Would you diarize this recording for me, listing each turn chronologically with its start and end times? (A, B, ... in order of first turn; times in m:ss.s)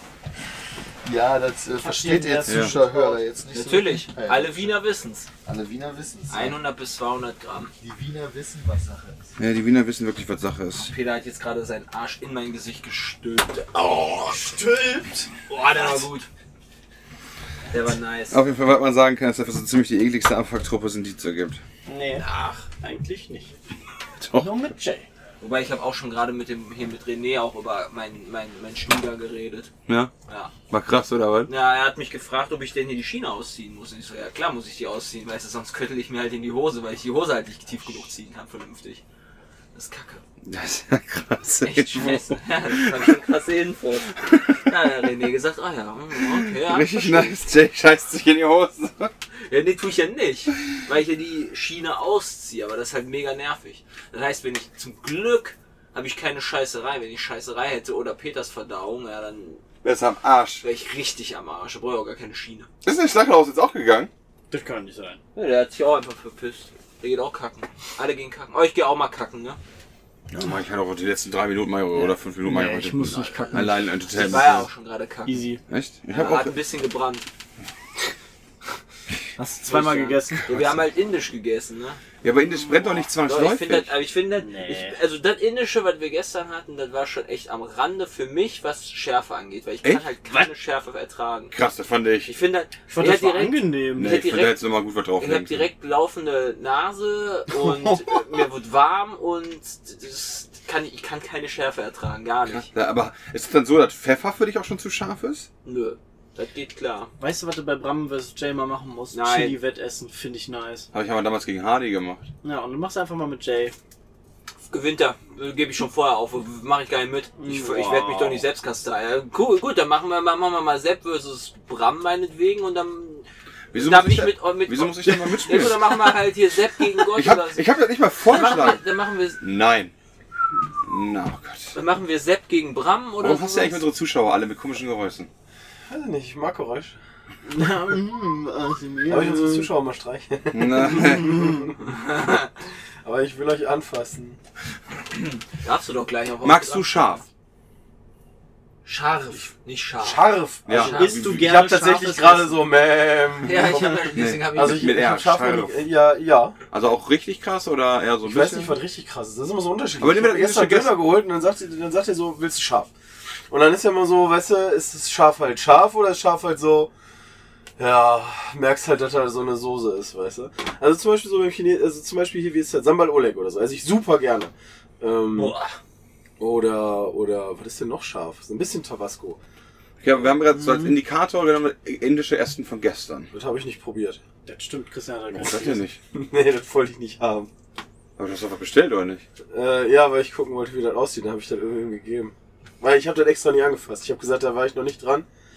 0:01.0-0:04.8 A
0:01.8-0:03.2 B
0:02.5-0:02.7 C
0:03.5-0:05.3 D
0:05.4-0:06.6 A
0:06.3-0:07.7 D
0:07.8-0:09.3 A
0:09.4-0:10.9 C
0:10.7-0:14.4 D
0:14.3-0:15.2 B
0:15.5-0:16.3 D
0:17.7-0:18.4 D
0:18.3-0:21.6 C
0:21.9-0:22.3 B
0:22.2-0:22.7 D
0:22.8-0:23.5 B
0:24.2-0:24.5 C
0:24.3-0:25.1 B
0:25.4-0:29.7 D
0:29.9-0:30.1 C
0:30.3-0:30.6 D
0:30.7-0:31.5 C
0:31.5-0:39.0 D
0:39.7-0:40.2 D
0:40.4-0:43.1 C
0:41.6-0:47.3 D
0:44.2-0:44.6 C
0:46.4-0:49.1 C
0:49.4-0:59.6 D
0:59.8-1:00.6 C
1:00.6-1:02.7 D
1:02.8-1:04.1 C
1:04.5-1:05.2 B
1:05.4-1:09.6 D
1:10.3-1:14.7 C
1:12.0-1:14.4 B
1:13.3-1:15.5 D
1:15.3-1:15.6 B
1:15.7-1:16.6 C
1:16.1-1:17.3 D
1:19.4-1:20.5 B
1:19.7-1:22.0 D
1:22.2-1:24.0 C
1:22.7-1:31.5 D
1:24.4-1:25.0 B
1:31.5-1:32.3 C
1:32.3-1:34.6 D
1:32.9-1:34.2 B
1:34.0-1:35.7 C
1:35.2-1:42.7 D
1:37.6-1:38.0 B
1:42.5-1:45.5 C
1:45.6-1:47.1 D
1:47.2-1:50.9 B
1:49.1-1:49.6 D
1:50.9-1:52.3 C
1:52.4-1:53.8 B
1:54.7-2:07.6 D
1:57.4-1:58.4 B
2:03.7-2:05.9 C
2:05.4-2:05.7 B
2:07.1-2:08.8 C
2:08.2-2:09.4 D
2:09.4-2:09.9 C
2:10.8-2:11.8 C
2:11.7-2:13.8 D
2:13.2-2:15.3 C
2:15.9-2:17.0 E
2:17.5-2:19.7 B
2:19.1-2:21.9 E
2:20.5-2:21.6 C
2:21.9-2:22.5 D
2:23.0-2:24.4 E
2:25.6-2:27.1 D
2:26.4-2:27.2 C
2:28.8-2:31.2 D
2:30.0-2:36.6 E
2:30.6-2:31.6 C
2:30.7-2:32.7 B
2:33.4-2:34.9 D
2:33.6-2:33.9 B
2:34.1-2:35.8 C
2:36.7-2:38.8 C
2:38.2-2:42.9 E
2:40.0-2:41.0 C
2:43.5-2:46.9 E
2:47.8-2:55.6 E
2:55.4-2:55.8 D
2:56.4-2:59.4 E
3:00.0-3:03.3 C
3:00.6-3:01.0 B
3:03.3-3:04.2 E
3:04.5-3:05.8 B
3:05.3-3:06.0 C
3:06.1-3:07.5 E
3:08.2-3:09.2 C
3:09.5-3:15.3 E